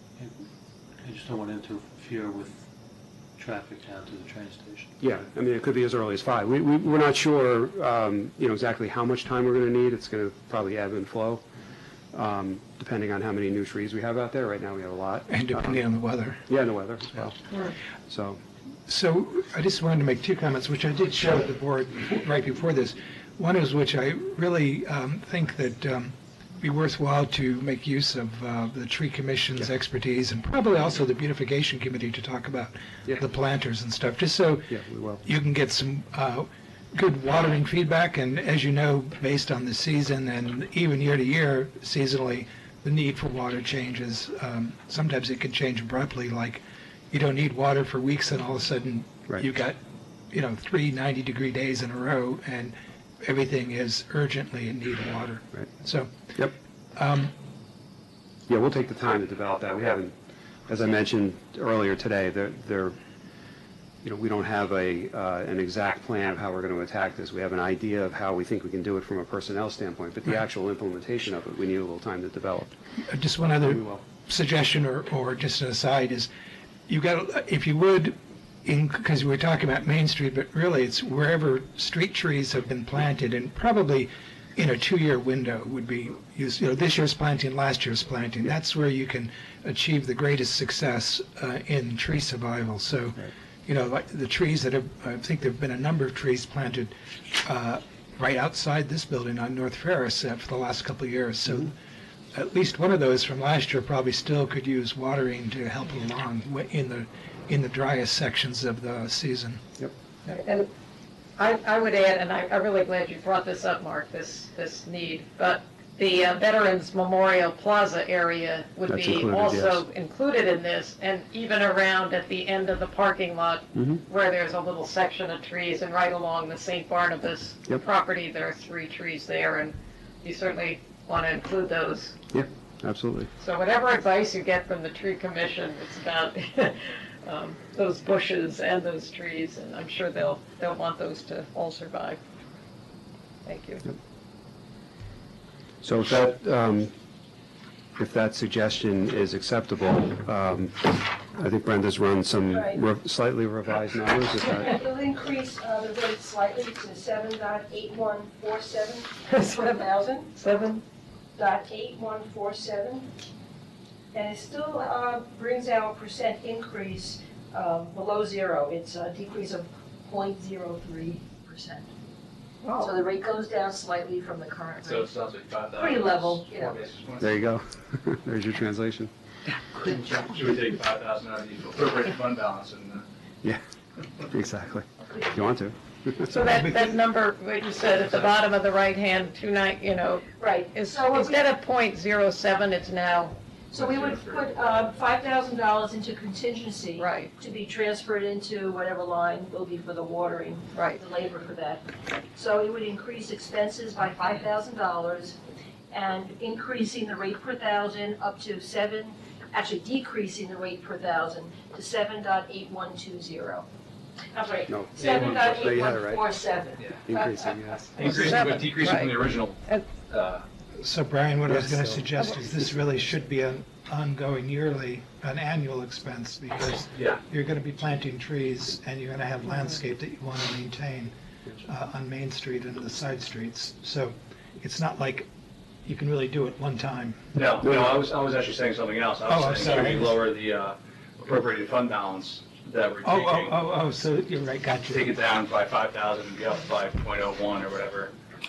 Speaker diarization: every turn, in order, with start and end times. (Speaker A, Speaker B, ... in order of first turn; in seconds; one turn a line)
Speaker A: 1.1-2.5
Speaker A: 3.4-4.9
Speaker B: 5.0-11.4
Speaker B: 12.1-15.8
Speaker C: 15.3-16.4
Speaker B: 16.5-17.4
Speaker B: 18.1-18.4
Speaker C: 18.9-49.8
Speaker B: 34.7-35.2
Speaker C: 50.3-56.3
Speaker C: 57.0-57.3
Speaker B: 58.5-60.1
Speaker B: 60.7-63.0
Speaker B: 64.0-72.7
Speaker C: 73.1-76.3
Speaker B: 73.6-74.0
Speaker C: 76.9-101.8
Speaker C: 102.3-109.6
Speaker D: 110.3-110.7
Speaker D: 111.4-132.2
Speaker B: 118.9-119.8
Speaker B: 123.8-124.0
Speaker B: 132.3-133.3
Speaker D: 133.4-142.2
Speaker D: 143.4-143.9
Speaker B: 145.8-146.9
Speaker B: 148.0-154.8
Speaker E: 152.5-152.8
Speaker E: 154.6-160.3
Speaker D: 159.3-160.8
Speaker E: 161.4-163.1
Speaker E: 164.1-171.9
Speaker D: 172.6-172.9
Speaker E: 172.8-175.1
Speaker F: 174.8-177.4
Speaker E: 175.8-176.8
Speaker B: 177.2-179.1
Speaker F: 179.8-183.0
Speaker B: 184.2-186.3
Speaker D: 186.3-193.4
Speaker C: 186.3-186.9
Speaker E: 190.4-191.4
Speaker E: 193.7-205.4
Speaker F: 193.7-194.6
Speaker D: 197.0-197.3
Speaker D: 200.7-201.0
Speaker E: 205.9-213.7
Speaker E: 214.3-217.8
Speaker B: 214.7-216.3
Speaker F: 215.0-215.9
Speaker F: 216.8-217.0
Speaker B: 217.1-218.3
Speaker F: 218.0-220.4
Speaker D: 218.0-219.2
Speaker C: 220.8-235.3
Speaker B: 221.5-222.1
Speaker F: 226.9-227.2
Speaker C: 235.8-237.3
Speaker F: 237.3-243.6
Speaker C: 239.3-240.2
Speaker C: 243.0-245.1
Speaker F: 244.9-248.1